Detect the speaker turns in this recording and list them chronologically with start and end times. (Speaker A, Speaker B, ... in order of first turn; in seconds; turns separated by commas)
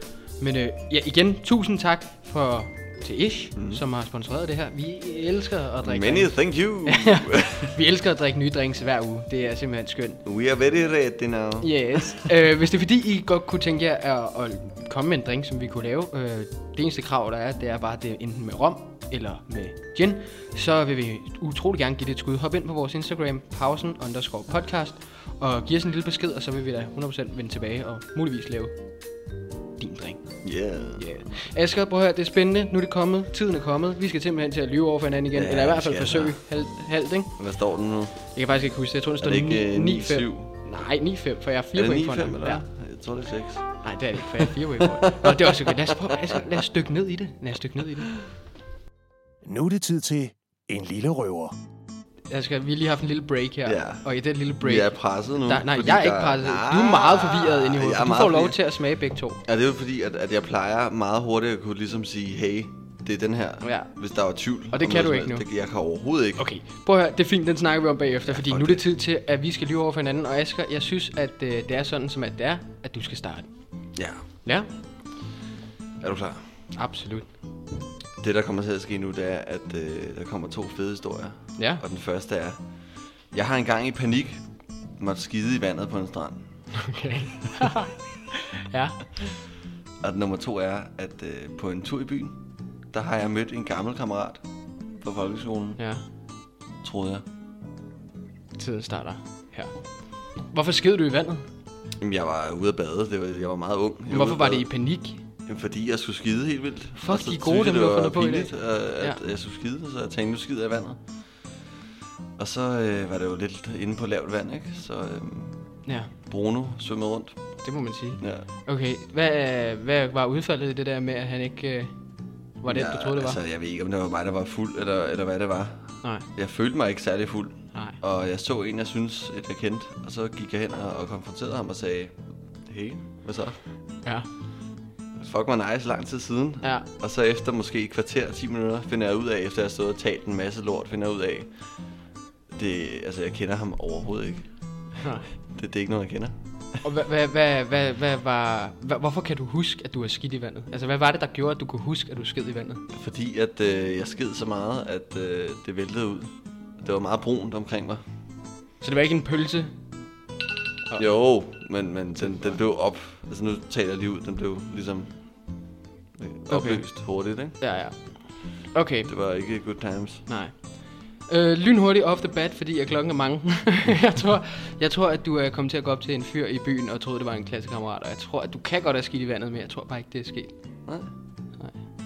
Speaker A: 0.4-10.2, Speaker B: 3.6-3.8, Speaker B: 5.8-7.8, Speaker B: 10.2-12.3, Speaker A: 11.6-28.8, Speaker A: 29.8-37.4, Speaker B: 30.4-31.1, Speaker B: 35.3-36.4, Speaker B: 37.4-38.3, Speaker A: 38.3-42.6, Speaker B: 39.2-40.5, Speaker B: 41.8-45.7, Speaker A: 43.8-48.2, Speaker C: 49.4-51.6, Speaker A: 52.3-59.4, Speaker B: 53.7-54.0, Speaker B: 54.6-58.6, Speaker B: 59.5-66.5, Speaker A: 63.6-63.9, Speaker A: 64.7-65.5, Speaker A: 66.4-73.5, Speaker B: 68.3-68.8, Speaker B: 74.0-74.2, Speaker B: 76.0-76.5, Speaker A: 76.7-77.3, Speaker B: 78.2-82.6, Speaker A: 81.6-81.8, Speaker B: 83.3-84.4, Speaker B: 85.0-86.4, Speaker A: 86.7-89.3, Speaker B: 90.0-92.4, Speaker B: 92.9-94.4, Speaker B: 95.0-95.8, Speaker A: 95.8-96.0, Speaker B: 96.8-97.2, Speaker A: 98.6-101.5, Speaker B: 102.0-104.7, Speaker A: 104.1-105.2, Speaker B: 105.5-111.0, Speaker A: 107.0-109.2, Speaker B: 112.4-115.6, Speaker A: 115.9-116.1, Speaker B: 116.3-117.4, Speaker A: 117.6-121.9, Speaker B: 118.2-118.5, Speaker A: 122.6-123.4, Speaker B: 122.7-133.6, Speaker A: 127.7-128.0, Speaker B: 135.2-141.7, Speaker B: 142.5-144.8, Speaker A: 145.0-145.3, Speaker B: 145.5-146.3, Speaker A: 146.8-152.8, Speaker B: 152.9-158.0, Speaker A: 158.8-159.7, Speaker B: 161.0-165.6, Speaker A: 162.2-162.6, Speaker B: 166.2-167.7, Speaker A: 166.5-169.1, Speaker B: 169.1-170.3, Speaker A: 170.3-180.5